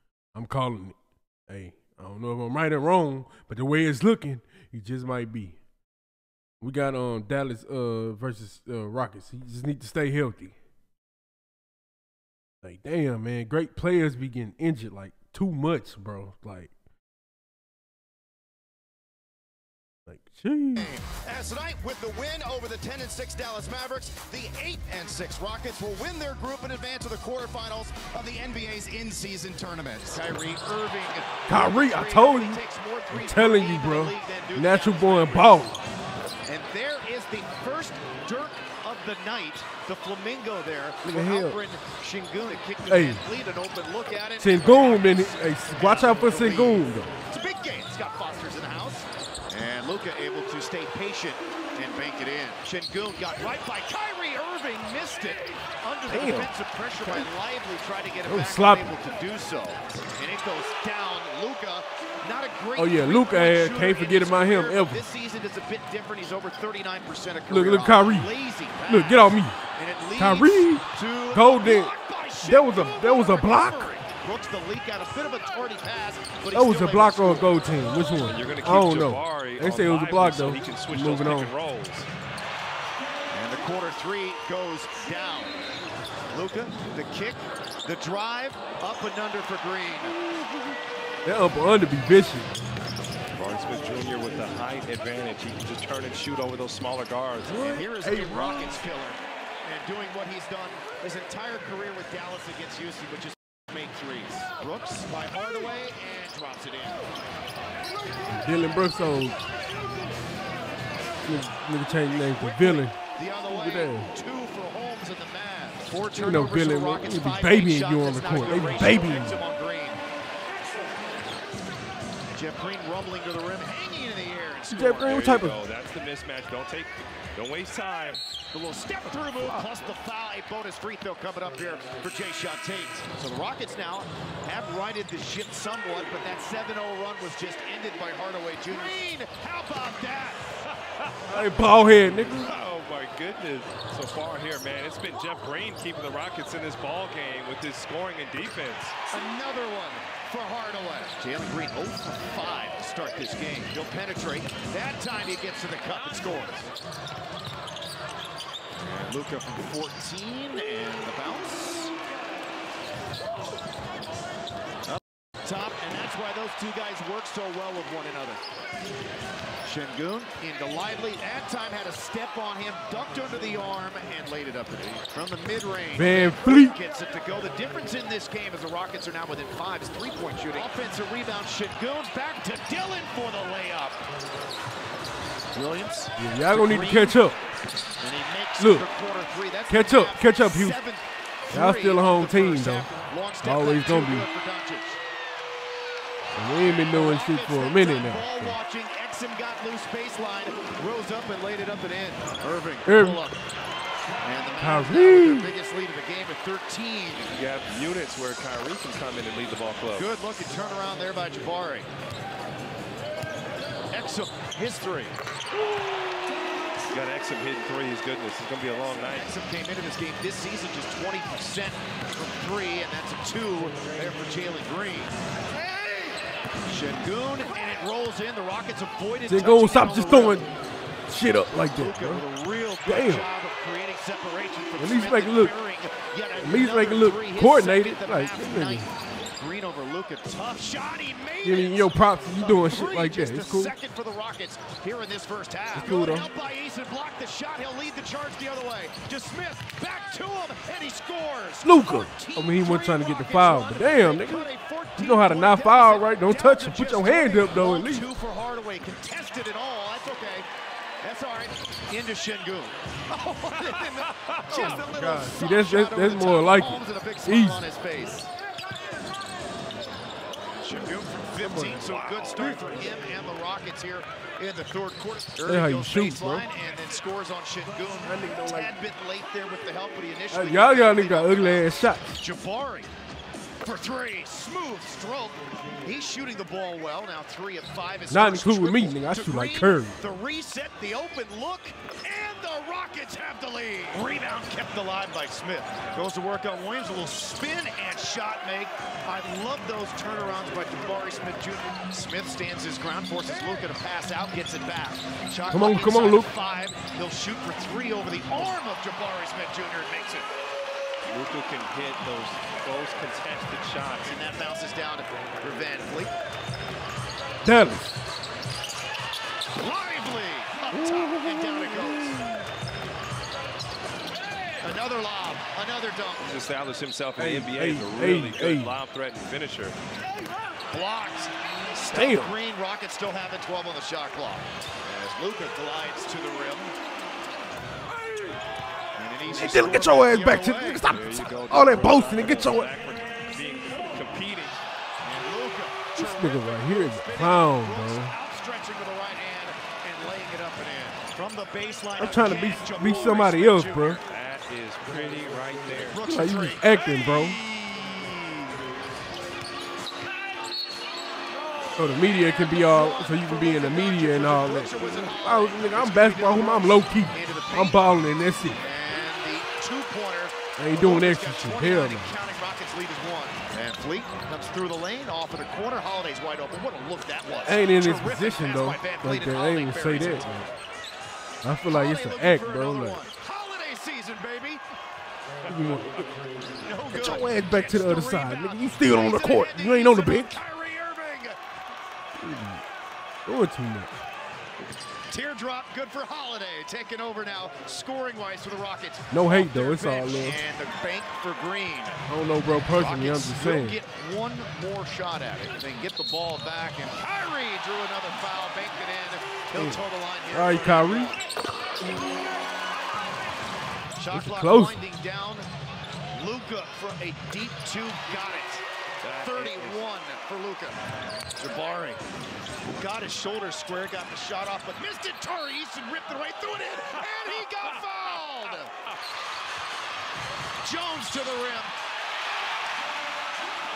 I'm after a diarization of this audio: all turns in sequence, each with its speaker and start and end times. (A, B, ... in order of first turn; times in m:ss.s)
0:00.3-0:05.6 A
0:06.6-0:10.6 A
0:12.6-0:16.7 A
0:20.1-0:20.9 A
0:20.8-0:35.6 B
0:31.5-0:35.8 A
0:36.5-1:17.5 B
0:41.0-0:41.6 A
0:42.9-0:43.2 A
0:44.4-0:47.1 A
0:56.1-0:57.3 A
0:58.3-0:58.9 A
1:02.8-1:05.0 A
1:07.5-1:08.3 A
1:08.9-1:09.6 A
1:10.2-1:13.9 A
1:16.5-1:21.5 A
1:18.2-1:22.1 C
1:23.3-1:25.6 B
1:26.3-1:30.2 B
1:31.2-1:32.5 A
1:33.3-1:37.6 C
1:37.5-1:38.8 A
1:37.6-1:47.0 B
1:48.3-1:49.4 A
1:51.2-1:53.0 A
1:52.0-2:00.0 B
1:53.5-1:54.1 A
1:56.1-1:59.4 A
2:02.3-2:05.3 B
2:04.7-2:05.6 A
2:05.0-2:08.2 C
2:08.5-2:20.5 B
2:09.4-2:09.7 A
2:21.3-2:22.6 A
2:22.4-2:29.0 C
2:29.1-2:36.7 B
2:38.8-2:41.9 B
2:44.9-2:48.4 B
2:49.6-3:04.0 B
2:55.9-2:56.8 A
3:05.5-3:07.2 B
3:06.2-3:07.4 A
3:08.0-3:15.0 B
3:08.6-3:08.9 A
3:09.7-3:10.8 A
3:11.5-3:12.9 A
3:13.4-3:14.3 A
3:16.4-3:18.6 A
3:16.6-3:23.4 B
3:22.8-3:23.2 A
3:24.2-3:27.3 B
3:24.6-3:25.5 A
3:27.2-3:30.1 C
3:29.9-3:31.9 B
3:33.9-3:35.2 B
3:36.9-3:39.3 C
3:38.9-3:46.2 B
3:46.7-3:50.5 B
3:49.3-3:50.5 A
3:51.1-3:52.2 A
3:51.7-4:20.5 B
3:52.8-3:53.3 A
3:54.8-3:55.5 A
3:56.4-3:58.9 A
4:01.4-4:03.7 A
4:05.8-4:06.3 A
4:11.6-4:18.1 A
4:21.0-4:28.3 B
4:23.5-4:24.8 C
4:24.5-4:27.6 A
4:30.4-4:42.9 B
4:31.4-4:31.9 A
4:31.8-4:32.6 C
4:35.5-4:36.5 A
4:38.0-4:38.7 A
4:40.3-4:42.2 A
4:43.6-5:10.3 B
4:48.1-4:50.0 A
5:05.5-5:06.3 A
5:11.1-5:14.2 C
5:14.1-5:16.1 B
5:17.4-5:18.0 A
5:19.6-5:22.3 B
5:20.7-5:22.4 A
5:24.6-5:26.2 B
5:26.2-5:29.8 C
5:27.2-5:28.8 A
5:30.7-5:36.8 B
5:31.9-5:32.4 A
5:39.0-5:40.9 B
5:39.3-5:42.7 A
5:40.9-5:44.6 C
5:45.0-5:54.1 B
5:46.0-5:48.2 A
5:52.0-5:54.0 A
5:54.0-5:56.0 C
5:55.9-5:58.4 B
5:56.1-5:57.4 A
6:01.3-6:07.8 B
6:01.8-6:08.6 A
6:08.5-6:20.3 B
6:10.6-6:12.1 A
6:17.4-6:20.5 A
6:21.4-6:23.1 A
6:21.7-6:24.6 B
6:25.4-6:26.1 A
6:26.6-6:31.4 B
6:26.9-6:30.4 A
6:32.2-6:32.6 A
6:33.3-6:33.9 A
6:35.1-6:42.0 B
6:39.1-6:40.4 A
6:42.1-6:43.8 A
6:42.7-6:51.2 B
6:49.5-6:49.8 A
6:50.3-6:51.2 A
6:54.0-6:55.5 B
6:54.1-6:54.8 A
6:56.1-6:58.6 B
6:59.0-6:59.8 C
6:59.1-7:00.8 B
7:01.4-7:02.0 B
7:02.8-7:08.7 B
7:10.6-7:11.7 B